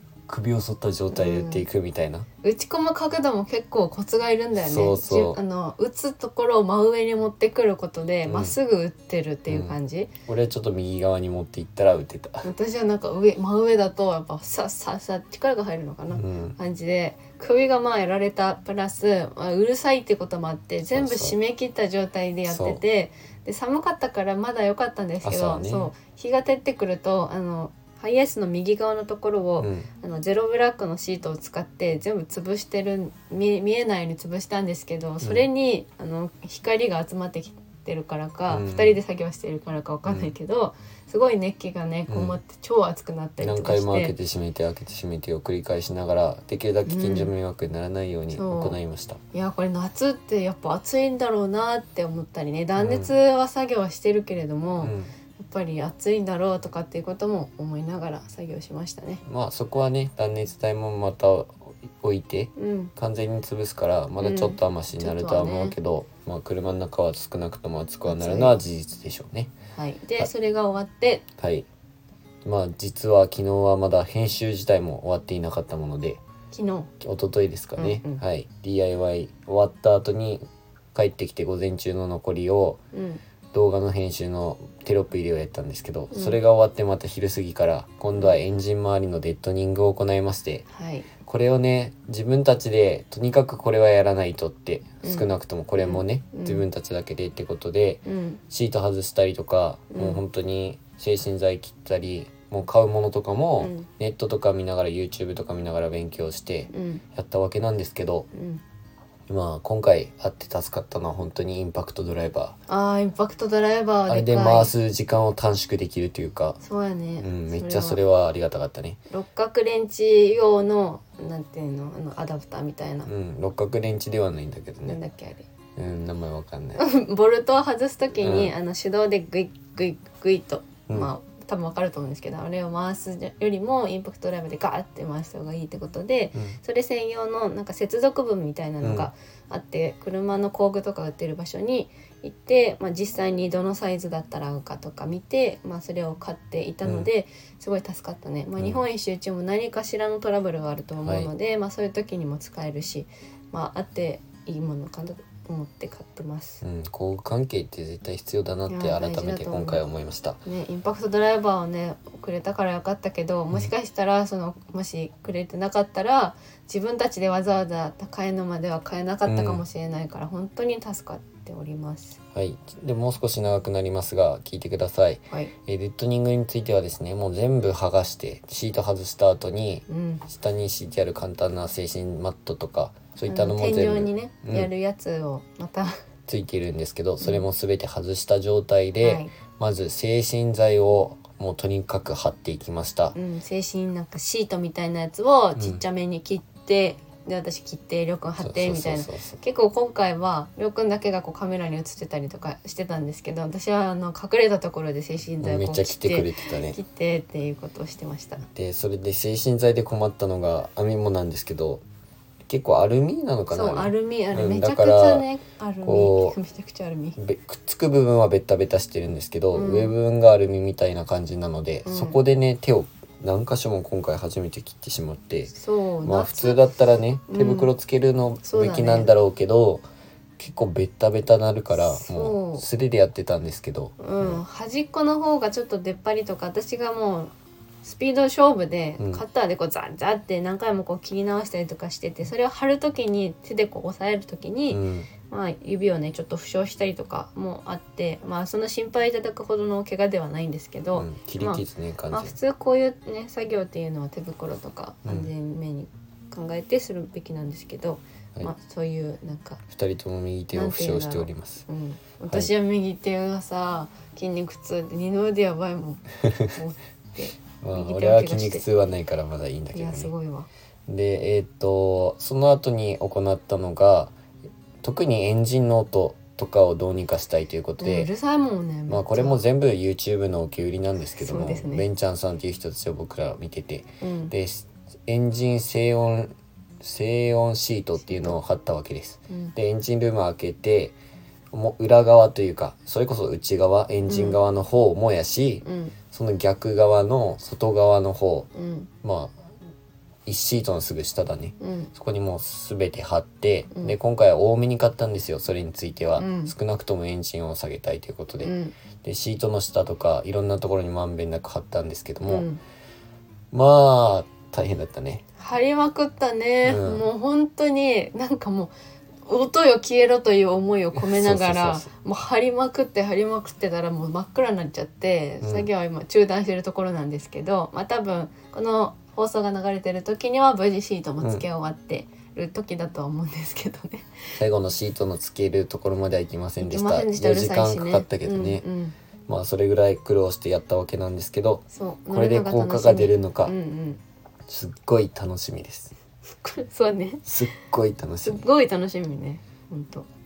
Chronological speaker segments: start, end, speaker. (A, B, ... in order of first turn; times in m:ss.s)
0:00.3-0:02.3 A
0:01.1-0:01.6 B
0:02.4-0:10.1 B
0:04.6-0:05.4 A
0:08.2-0:08.6 A
0:09.5-0:12.5 A
0:12.4-0:44.1 B
0:16.1-0:16.6 A
0:20.9-0:21.3 A
0:22.5-0:22.8 A
0:25.2-0:25.9 A
0:29.6-0:29.9 A
0:35.2-0:35.5 A
0:38.5-0:39.0 A
0:40.0-0:40.3 A
0:42.1-0:42.4 A
0:43.4-0:49.2 A
0:46.8-0:47.3 B
0:48.3-0:48.8 B
0:49.3-0:59.2 B
0:52.8-0:53.1 A
0:54.8-0:55.1 A
0:59.2-1:09.5 A
1:02.6-1:02.9 B
1:04.2-1:05.7 B
1:08.0-1:08.6 B
1:09.7-1:11.2 B
1:11.4-1:11.7 A
1:12.4-1:16.2 A
1:16.5-1:16.9 B
1:17.0-1:22.8 A
1:17.8-1:18.2 B
1:22.9-1:23.2 B
1:23.5-1:30.6 A
1:26.1-1:26.4 B
1:30.7-1:31.1 B
1:31.2-1:48.3 A
1:35.0-1:36.6 B
1:38.0-1:38.4 B
1:39.9-1:40.2 B
1:43.6-1:43.9 B
1:46.7-1:47.0 B
1:48.3-1:48.6 B
1:49.3-1:52.6 A
1:52.7-1:54.7 B
1:54.1-1:56.6 A
1:56.6-1:58.0 B
1:57.2-1:59.0 A
1:59.1-2:03.1 B
2:03.0-2:05.0 A
2:04.9-2:05.4 B
2:05.8-2:06.8 A
2:06.8-2:36.6 B
2:08.1-2:08.5 A
2:18.8-2:19.1 A
2:31.0-2:31.3 A
2:36.6-2:40.4 A
2:38.7-2:39.8 B
2:40.4-2:52.2 B
2:49.2-2:49.6 A
2:52.3-3:04.7 A
2:59.9-3:00.2 B
3:03.3-3:05.9 B
3:06.3-3:13.2 A
3:09.0-3:09.3 B
3:13.1-3:28.4 B
3:15.6-3:15.8 A
3:18.4-3:19.4 A
3:25.4-3:26.8 A
3:28.5-3:31.8 A
3:32.5-3:35.2 A
3:33.5-3:37.2 B
3:35.8-3:36.4 A
3:37.2-3:49.8 A
3:39.5-3:39.9 B
3:41.8-3:42.2 B
3:45.5-3:46.6 B
3:47.3-3:47.7 B
3:48.4-3:49.1 B
3:50.4-3:54.4 A
3:51.7-3:52.6 B
3:54.0-3:57.3 B
3:57.8-4:19.6 B
4:04.7-4:05.1 A
4:10.9-4:12.3 A
4:19.7-4:21.6 A
4:20.5-4:28.6 B
4:27.6-4:30.1 A
4:29.7-4:30.5 B
4:30.9-4:34.1 A
4:34.8-4:38.1 A
4:37.8-4:39.4 B
4:38.9-4:50.9 A
4:41.1-4:41.8 B
4:44.0-4:44.3 B
4:48.0-4:48.3 B
4:51.5-4:58.5 A
4:54.1-4:54.4 B
4:55.6-4:55.9 B
4:58.5-4:58.9 B
4:59.0-4:59.3 A
5:00.2-5:08.5 A
5:01.6-5:01.9 B
5:06.2-5:06.5 B
5:08.4-5:08.7 B
5:09.0-5:12.5 A
5:12.2-5:12.6 B
5:13.5-5:15.2 A
5:15.4-5:18.7 B
5:16.6-5:17.0 A
5:19.2-5:34.4 B
5:21.0-5:21.9 A
5:25.4-5:25.7 A
5:34.4-5:38.6 A
5:36.6-5:38.9 B
5:39.3-5:43.5 A
5:41.7-5:44.0 B
5:44.5-5:45.9 A
5:46.4-5:47.2 B
5:47.2-5:48.4 A
5:48.2-5:50.1 B